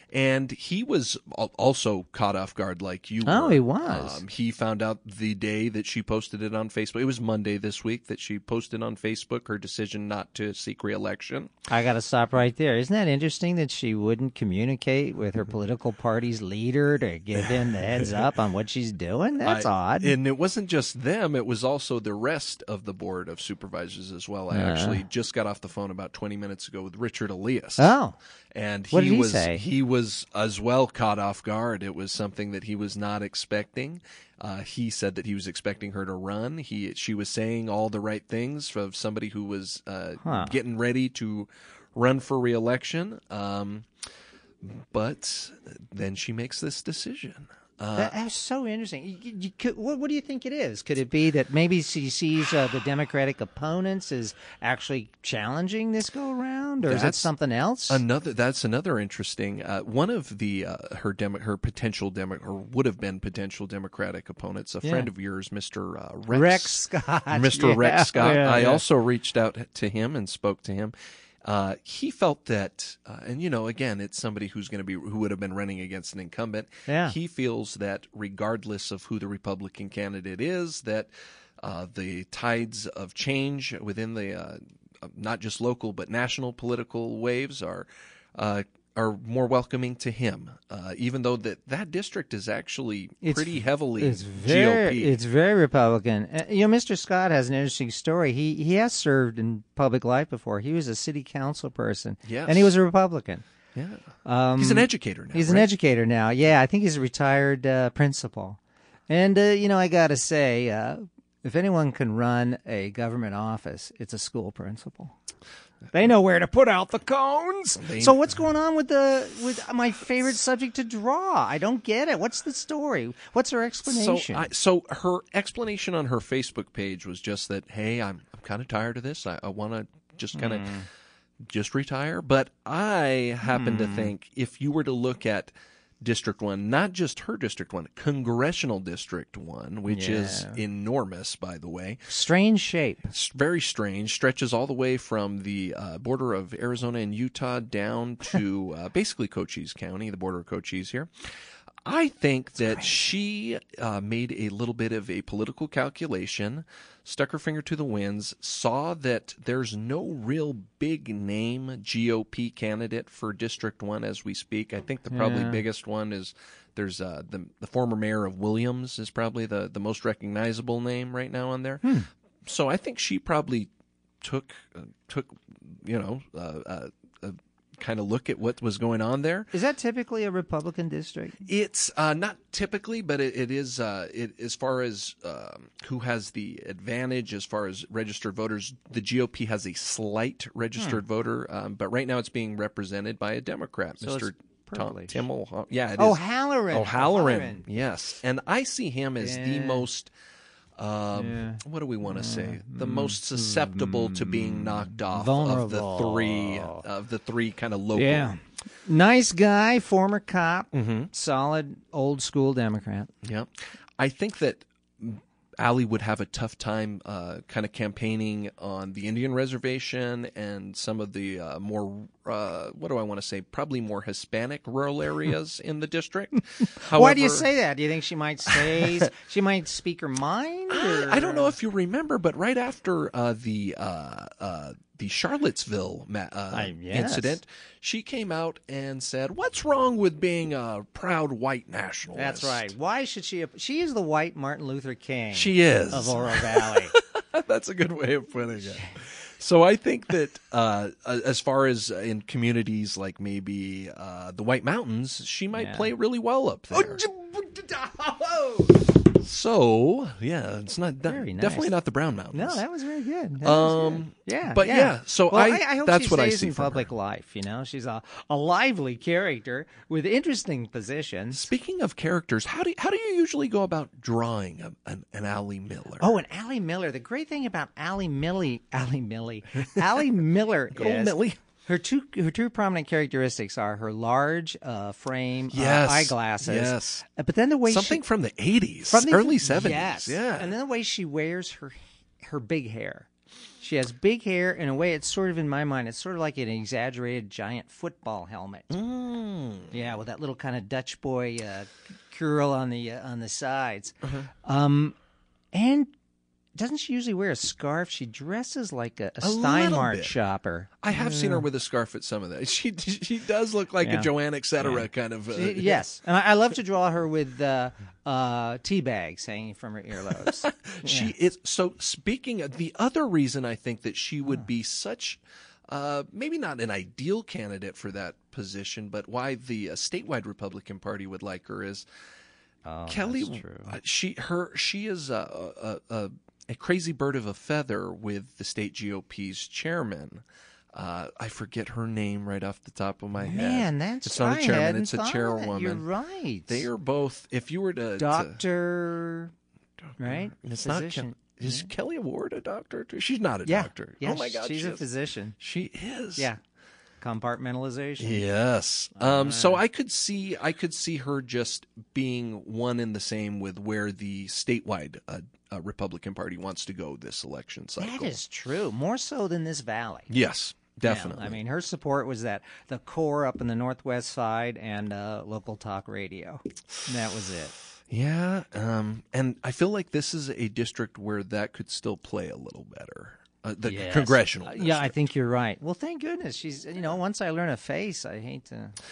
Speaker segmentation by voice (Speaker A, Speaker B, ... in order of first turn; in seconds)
Speaker A: 0.1-11.5, 17.4-18.4, 19.4-27.9, 28.5-43.9, 44.6-48.1, 56.8-57.3, 57.9-70.9, 71.4-95.2, 102.2-102.7, 103.7-104.0, 104.6-105.7, 117.8-118.2, 123.8-130.8, 131.4-142.1, 143.1-151.1, 151.8-171.8, 172.4-173.7, 174.2-179.5, 181.4-200.1, 200.8-208.3, 210.7-211.1, 213.2-227.5, 228.5-229.1, 230.7-242.7, 245.3-257.1, 259.1-262.6, 263.4-266.9, 271.3-276.2, 279.6-280.1, 280.7-281.4, 285.5-287.1, 287.7-290.5, 298.7-299.7, 309.2-310.1, 310.8-315.8, 320.1-331.9, 332.9-345.8, 346.5-348.4, 349.9-354.8, 355.4-356.3, 358.0-368.1, 370.1-371.4, 377.9-384.9
Speaker B: 3.3-4.2, 11.7-20.2, 24.5-25.0, 27.8-28.2, 28.9-29.6, 40.2-40.5, 48.0-58.0, 64.8-65.1, 66.3-68.8, 76.9-77.2, 93.2-103.5, 104.2-115.2, 115.9-124.5, 130.3-130.9, 133.5-134.1, 139.9-140.6, 142.1-143.1, 165.1-165.6, 171.8-172.1, 179.5-181.4, 194.0-195.2, 196.0-197.7, 199.2-199.9, 201.2-206.8, 207.9-213.1, 226.8-231.6, 236.5-237.4, 242.2-246.9, 255.5-255.9, 256.7-258.9, 261.1-261.7, 262.3-271.5, 276.0-288.0, 288.9-293.1, 293.6-298.7, 299.7-305.0, 305.5-305.9, 306.6-311.5, 313.8-321.1, 332.6-333.8, 343.2-346.7, 348.0-349.3, 350.0-351.7, 353.5-355.4, 357.0-358.3, 359.0-359.6, 367.8-370.1, 370.9-377.6, 383.6-388.8